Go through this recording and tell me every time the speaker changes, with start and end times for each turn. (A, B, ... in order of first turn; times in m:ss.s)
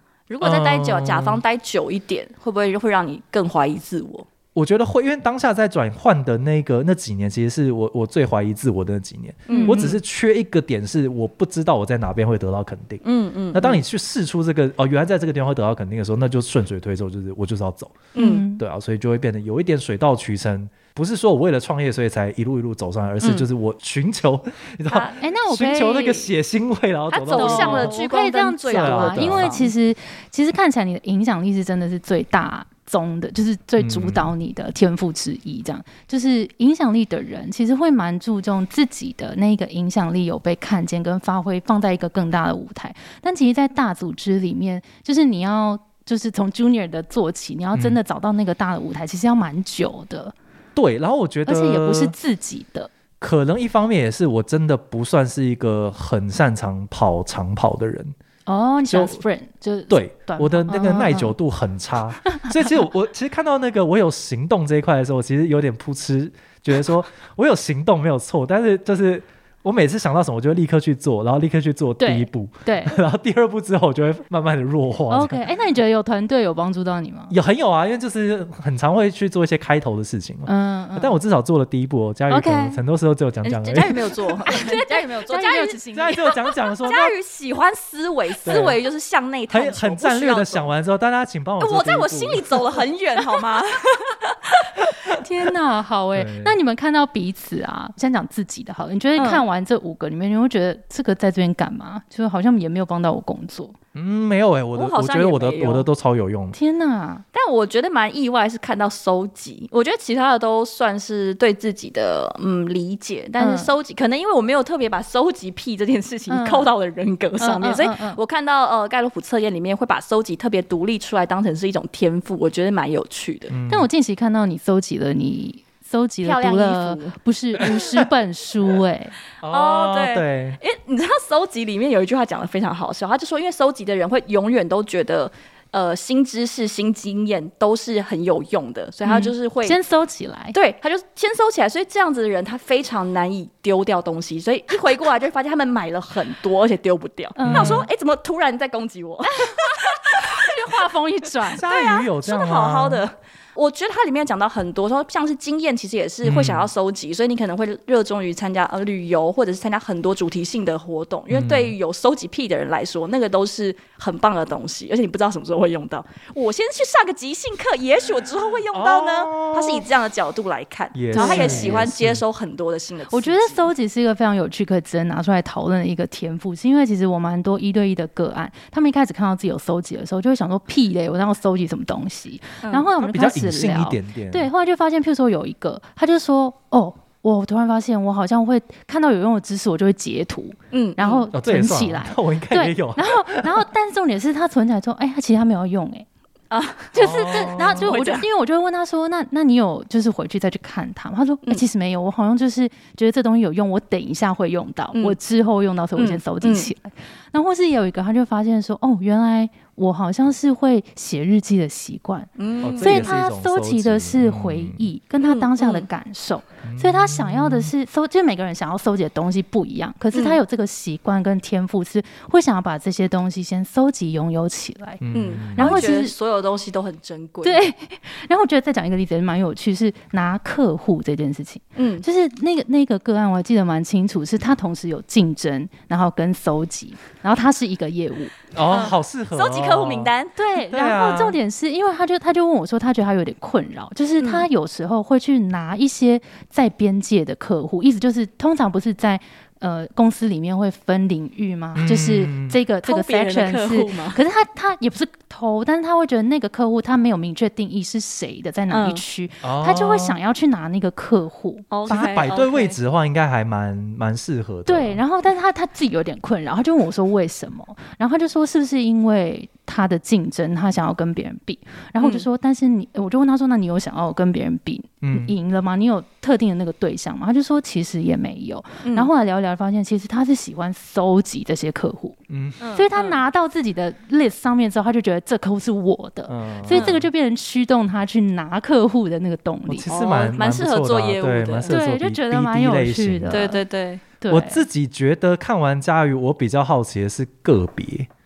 0:00.3-0:04.3 A
0:00.4-0:01.4 B
0:04.6-0:28.0 B
0:09.5-0:10.0 A
0:09.5-0:09.8 C
0:13.0-0:13.8 A
0:18.1-0:18.4 A
0:18.2-0:18.6 C
0:23.2-0:23.5 A
0:24.9-0:25.2 A
0:25.2-0:26.3 C
0:27.1-0:29.7 A
0:27.4-0:50.3 C
0:28.7-0:29.6 B
0:33.8-0:34.3 B
0:47.7-0:48.0 B
0:50.8-0:52.2 B
0:51.5-0:52.9 C
0:53.2-0:58.1 B
0:58.5-1:01.4 C
0:58.8-0:59.2 B
0:59.9-1:15.4 B
1:02.3-1:02.7 C
1:12.0-1:13.0 C
1:15.1-1:17.4 C
1:17.3-1:23.9 B
1:20.5-1:21.2 C
1:22.3-1:22.8 C
1:23.4-1:26.2 A
1:24.4-1:26.4 C
1:25.9-1:27.1 B
1:26.8-1:30.7 A
1:28.4-1:28.8 B
1:29.5-1:32.6 B
1:31.6-1:34.7 A
1:35.1-1:43.8 C
1:36.1-1:36.6 B
1:39.2-1:39.4 A
1:43.9-1:46.6 B
1:44.7-1:45.9 A
1:46.5-1:47.2 C
1:47.3-2:03.5 A
1:53.4-1:53.7 C
1:56.3-1:56.7 C
1:57.4-1:58.2 C
2:03.5-2:03.9 B
2:03.7-2:09.2 C
2:06.2-2:07.2 A
2:07.6-2:08.1 B
2:09.4-2:10.6 B
2:09.5-2:19.8 A
2:19.0-2:20.6 C
2:20.5-2:30.8 A
2:27.4-2:27.9 C
2:27.4-2:27.9 B
2:29.3-2:31.6 C
2:31.5-2:53.7 A
2:31.6-2:33.1 B
2:36.2-2:36.7 B
2:41.3-2:41.8 B
2:48.7-2:49.9 B
2:50.9-2:52.2 B
2:51.1-2:51.9 C
2:53.1-3:16.1 C
3:02.6-3:02.9 A
3:03.0-3:04.5 B
3:10.7-3:11.3 A
3:11.3-3:13.7 B
3:16.5-3:18.2 A
3:16.9-3:45.0 C
3:17.0-3:18.0 B
3:26.0-3:26.7 A
3:32.4-3:33.2 A
3:32.6-3:34.9 B
3:35.2-3:35.9 A
3:36.6-3:37.7 B
3:40.1-3:40.4 A
3:45.0-3:45.9 B
3:45.1-3:47.6 A
3:45.6-3:46.1 C
3:47.4-3:58.3 C
3:51.8-3:52.1 A
3:58.5-4:00.1 B
3:58.7-4:00.4 A
4:00.4-4:22.1 C
4:00.7-4:01.4 B
4:04.2-4:04.5 A
4:11.8-4:12.6 B
4:12.8-4:14.2 A
4:18.7-4:19.0 A
4:19.4-4:20.2 B
4:21.7-4:22.8 A
4:21.9-4:25.0 B
4:24.7-4:42.2 C
4:32.0-4:32.3 A
4:35.0-4:35.3 B
4:38.8-4:39.1 A
4:42.3-4:42.6 B
4:42.6-4:43.2 A
4:42.8-4:49.9 C
4:46.3-4:47.1 B
4:46.7-4:47.0 A
4:49.7-4:53.4 B
4:49.9-4:51.8 A
4:51.7-4:53.6 C
4:53.3-4:54.0 A
4:54.2-4:54.6 C
4:54.3-4:58.1 B